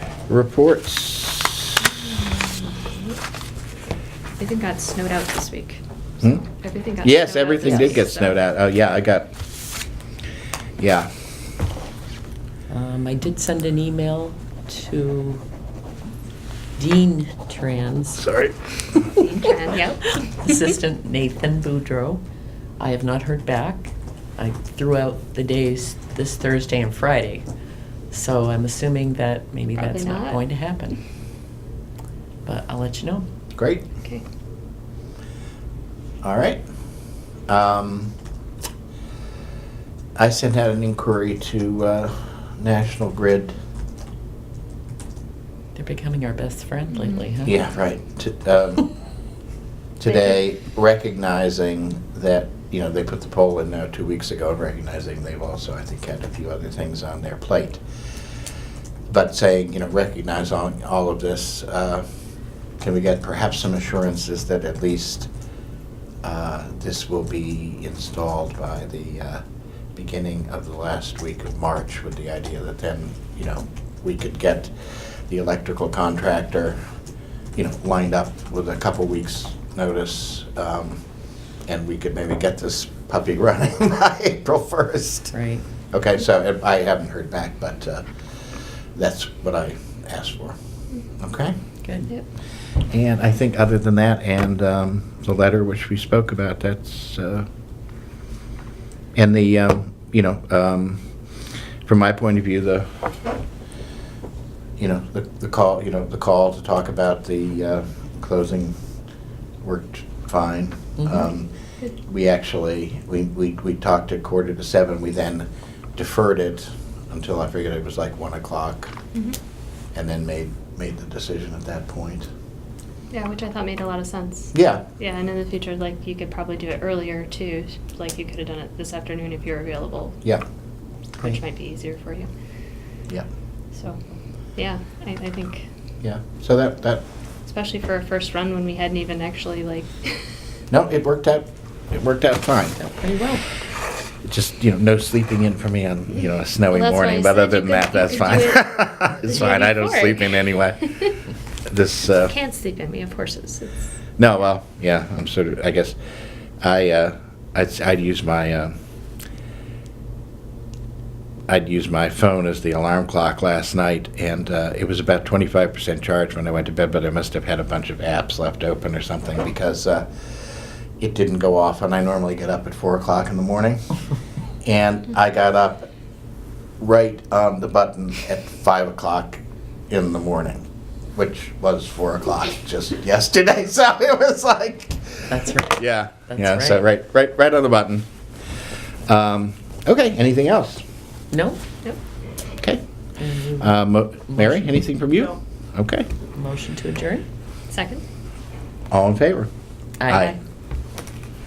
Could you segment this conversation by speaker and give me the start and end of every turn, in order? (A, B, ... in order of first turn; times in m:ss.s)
0:00.3-0:01.8 A
0:01.8-0:03.2 B
0:04.4-0:05.8 B
0:06.4-0:08.4 B
0:07.0-0:09.3 A
0:07.6-0:08.0 C
0:10.8-0:11.1 A
0:12.7-0:15.4 C
0:16.8-0:18.3 C
0:18.2-0:18.6 A
0:19.2-0:20.4 B
0:19.7-0:22.2 C
0:22.8-0:27.4 C
0:28.1-0:31.0 C
0:29.8-0:30.4 B
0:32.4-0:33.2 C
0:33.6-0:33.8 A
0:36.2-0:36.6 A
0:37.5-0:38.1 A
0:40.2-0:43.5 A
0:45.7-0:47.6 C
0:47.4-0:48.9 A
0:50.0-0:57.8 A
0:59.1-1:02.0 A
1:02.8-1:05.3 A
1:06.2-1:09.4 A
1:09.9-1:16.8 A
1:17.5-1:21.0 A
1:21.6-1:25.3 A
1:25.3-1:25.6 C
1:25.9-1:28.1 A
1:28.9-1:30.6 A
1:31.2-1:31.6 A
1:31.8-1:32.1 C
1:32.9-1:37.5 A
1:39.1-1:41.0 A
1:41.8-1:42.9 A
1:44.8-1:48.7 A
1:49.6-1:51.5 A
1:51.0-1:51.3 C
1:52.0-1:58.9 A
1:59.9-2:02.3 A
2:03.1-2:10.2 B
2:04.5-2:04.8 A
2:11.2-2:12.3 B
2:13.7-2:14.0 B
2:14.6-2:15.6 B
2:16.0-2:17.0 A
2:17.4-2:20.2 B
2:20.7-2:22.8 A
2:22.8-2:23.4 C
2:24.2-2:30.9 A
2:26.7-2:31.0 B
2:31.6-2:32.3 A
2:32.1-2:33.8 B
2:34.2-2:36.0 A
2:36.6-2:38.7 A
2:41.5-2:53.8 A
2:54.6-2:55.9 A
2:56.8-3:08.1 A
3:05.3-3:06.8 C
3:09.0-3:10.8 A
3:11.3-3:11.6 C
3:12.5-3:12.8 A
3:13.2-3:13.8 C
3:13.6-3:16.1 A
3:14.3-3:14.8 C
3:16.3-3:17.2 C
3:17.7-3:18.0 B
3:18.9-3:19.5 A
3:20.0-3:20.4 C
3:20.1-3:20.4 A